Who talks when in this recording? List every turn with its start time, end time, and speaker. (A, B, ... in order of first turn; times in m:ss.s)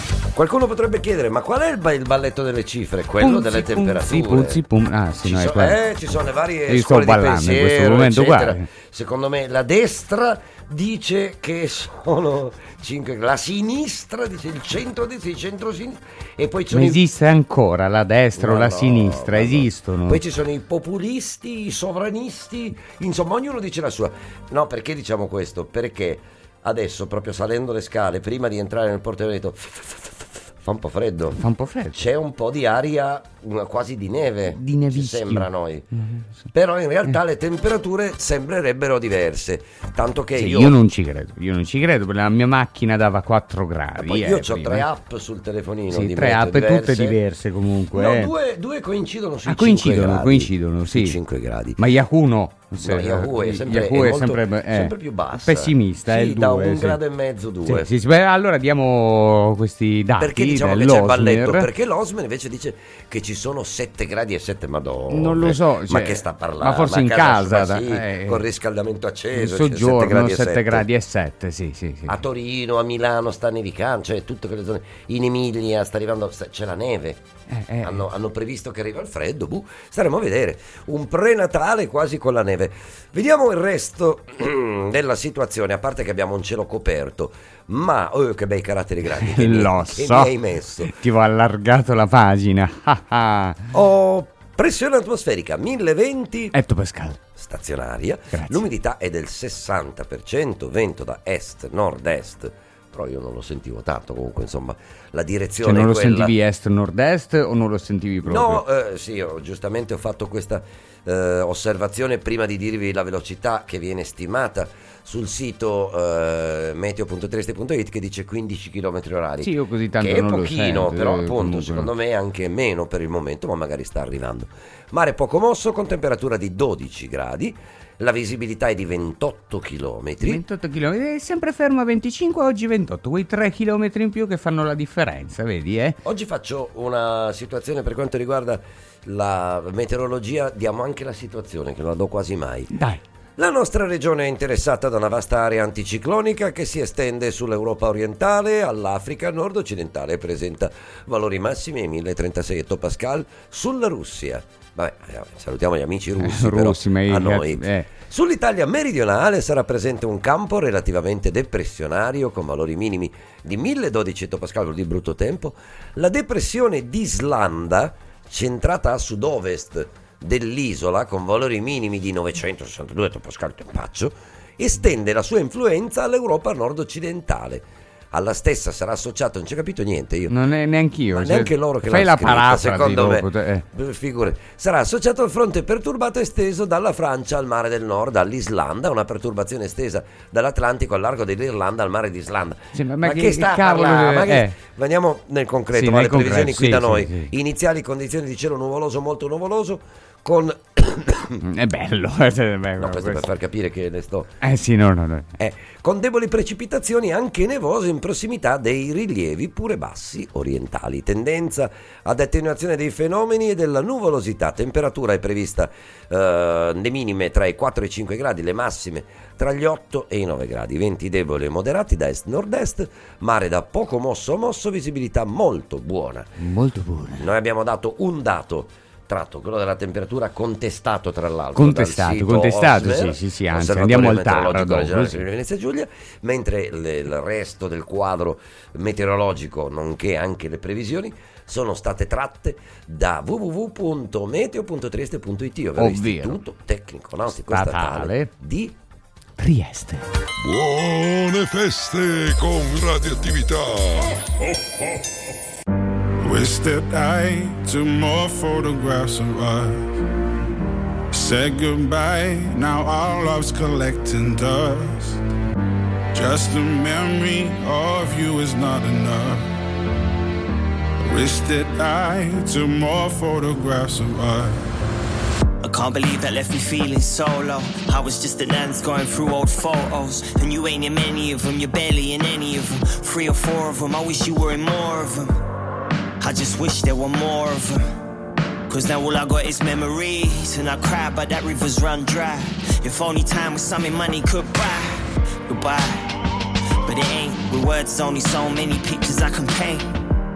0:00.3-0:04.6 A
0:03.2-0:05.8 B
0:05.2-0:17.0 A
0:06.7-0:08.6 B
0:16.7-0:20.2 B
0:18.4-0:31.4 A
0:31.4-0:32.0 B
0:31.9-0:35.8 A
0:34.5-0:36.3 B
0:36.5-0:40.8 A
0:40.4-0:44.9 B
0:44.0-0:47.2 A
0:45.9-0:48.3 B
0:47.9-0:51.8 A
0:49.4-0:51.1 B
0:51.8-0:57.0 B
0:52.8-0:57.9 A
0:57.6-1:01.6 B
1:00.2-1:10.8 A
1:05.1-1:08.4 B
1:09.4-1:12.2 B
1:12.1-1:17.2 A
1:17.5-1:18.0 B
1:17.8-1:30.9 A
1:29.1-1:33.6 B
1:33.7-1:36.5 A
1:36.5-1:37.2 B
1:37.4-1:46.4 A
1:38.3-1:38.6 B
1:45.6-1:48.6 B
1:48.2-2:10.4 A
1:59.4-2:01.9 B
2:10.2-2:16.0 B
2:16.0-2:22.7 A
2:22.7-2:23.0 B
2:23.4-3:00.3 A
2:36.2-2:37.9 B
3:00.3-3:03.6 B
3:01.1-3:21.4 A
3:12.7-3:14.5 B
3:15.8-3:17.3 B
3:21.4-3:23.3 B
3:22.8-3:24.3 A
3:24.4-3:25.3 B
3:25.4-3:46.3 A
3:46.4-3:47.2 B
3:47.1-4:08.7 A
3:51.6-3:55.2 B
4:05.8-4:06.4 B
4:07.5-4:08.3 B
4:09.4-4:10.0 B
4:10.4-4:14.9 C
4:16.2-4:19.9 D
4:21.1-4:25.2 D
4:26.1-4:29.5 D
4:31.0-4:34.6 D
4:35.6-4:45.4 E
4:46.2-4:47.8 E
4:48.7-4:56.1 E
4:56.8-4:59.9 E